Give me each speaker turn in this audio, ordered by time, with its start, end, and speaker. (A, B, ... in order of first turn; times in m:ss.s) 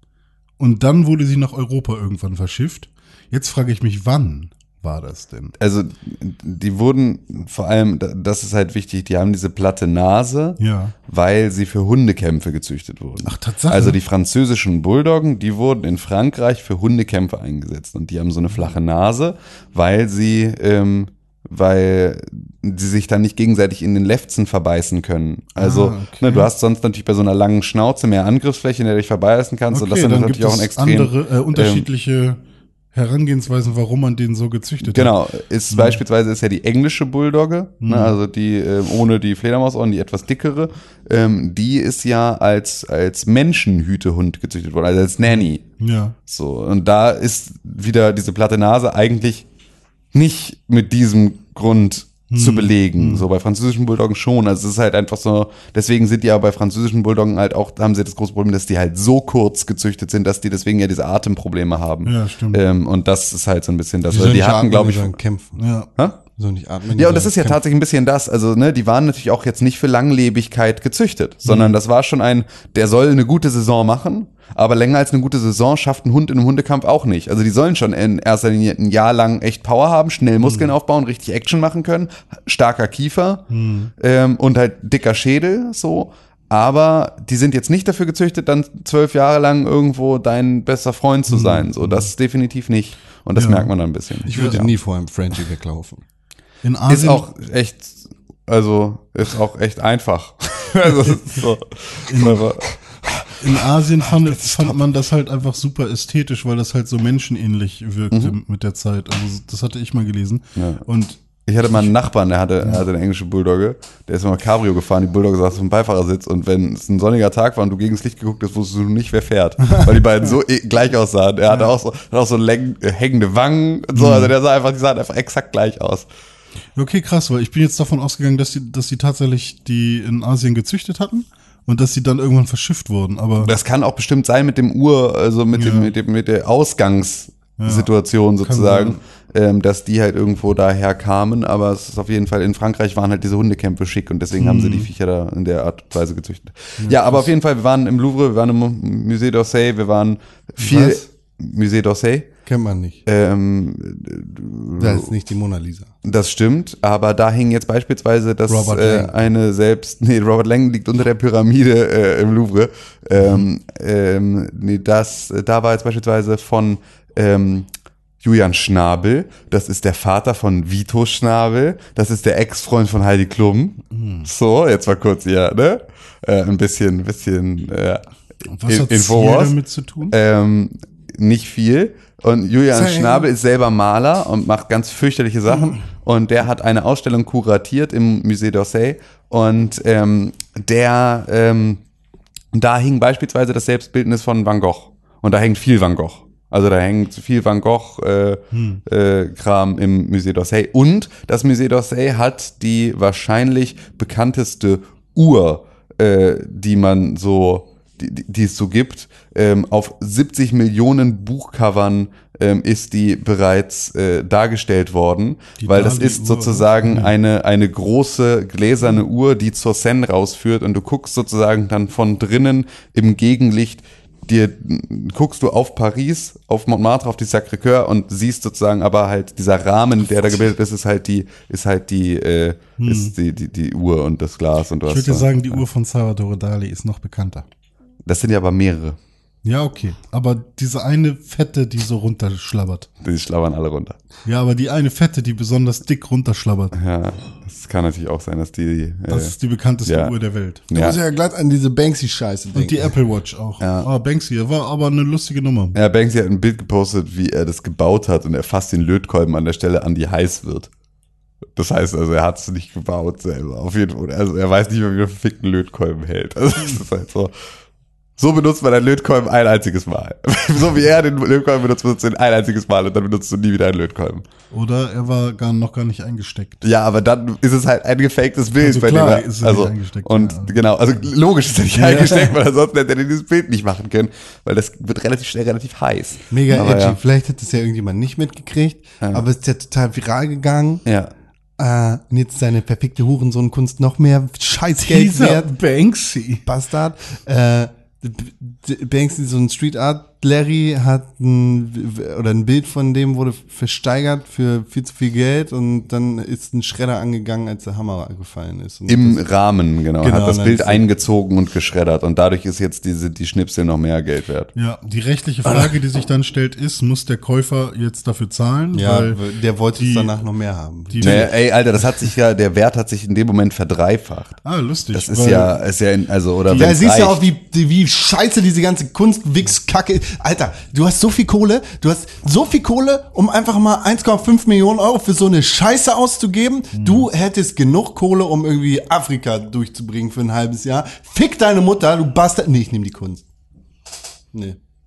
0:00.6-0:05.5 A
0:05.6-0:31.9 B
0:10.6-0:10.9 A
0:13.2-0:14.0 A
0:25.6-0:26.5 A
0:29.7-0:32.4 A
0:32.9-0:35.1 A
0:34.8-0:45.6 B
0:35.7-0:36.0 A
0:37.8-0:38.2 A
0:45.3-0:46.2 A
0:46.3-0:49.4 B
0:50.1-1:05.2 B
0:52.3-0:53.3 A
1:02.0-1:02.6 A
1:04.1-1:04.4 A
1:04.1-1:05.6 C
1:05.6-1:05.9 A
1:06.4-1:07.5 C
1:06.9-1:23.4 B
1:11.4-1:11.8 A
1:20.4-1:20.7 A
1:23.5-1:23.9 A
1:24.0-1:34.7 B
1:31.3-1:32.1 A
1:33.3-1:33.7 A
1:34.3-1:34.6 A
1:34.3-1:36.0 C
1:36.6-1:37.2 A
1:36.9-1:43.4 B
1:40.9-1:41.2 A
1:42.0-1:42.5 A
1:43.3-1:51.9 A
1:44.4-1:44.8 B
1:50.6-1:50.8 B
1:51.4-2:06.1 B
2:01.5-2:01.7 A
2:03.9-2:04.3 A
2:06.7-2:13.5 A
2:13.4-2:32.3 B
2:15.5-2:15.9 A
2:17.6-2:19.0 A
2:24.4-2:24.9 A
2:26.8-2:27.3 A
2:30.6-2:31.1 C
2:32.4-2:33.0 C
2:33.0-2:35.0 B
2:34.8-2:35.9 C
2:36.0-2:47.7 B
2:38.5-2:39.1 A
2:38.8-2:39.1 C
2:48.2-2:58.0 B
2:53.9-2:54.3 A
2:58.5-3:00.1 A
2:58.6-2:59.5 B
3:00.1-3:11.8 B
3:02.7-3:03.2 C
3:12.5-3:55.6 B
3:18.5-3:18.8 A
3:35.6-3:37.1 A
3:52.8-3:53.1 A
3:54.8-3:57.4 A
3:58.0-3:59.0 B
3:59.4-4:02.9 A
4:03.0-4:04.0 B
4:04.2-4:06.7 A
4:06.7-4:09.3 B
4:09.1-4:10.6 A
4:09.8-4:10.1 B
4:10.7-4:11.0 B
4:10.7-4:13.0 C
4:12.5-4:15.7 A
4:13.6-4:13.9 B
4:15.7-4:20.7 B
4:21.6-4:27.3 B
4:28.2-4:34.2 B
4:34.5-4:36.6 A
4:36.6-4:47.0 B
4:38.6-4:41.0 A
4:41.7-4:42.3 A
4:46.3-4:50.8 C
4:50.8-4:51.1 B
4:51.6-4:55.5 C
4:54.9-4:56.4 A
4:56.4-5:09.2 C
5:08.9-5:14.5 B
5:10.0-5:10.8 C
5:14.6-5:19.2 A
5:18.7-5:21.3 C
5:19.8-5:20.2 A
5:20.9-5:21.3 A
5:21.0-5:24.4 B
5:24.4-5:25.5 A
5:24.9-5:27.2 B
5:26.5-5:43.2 C
5:36.7-5:37.1 A
5:44.3-5:44.6 C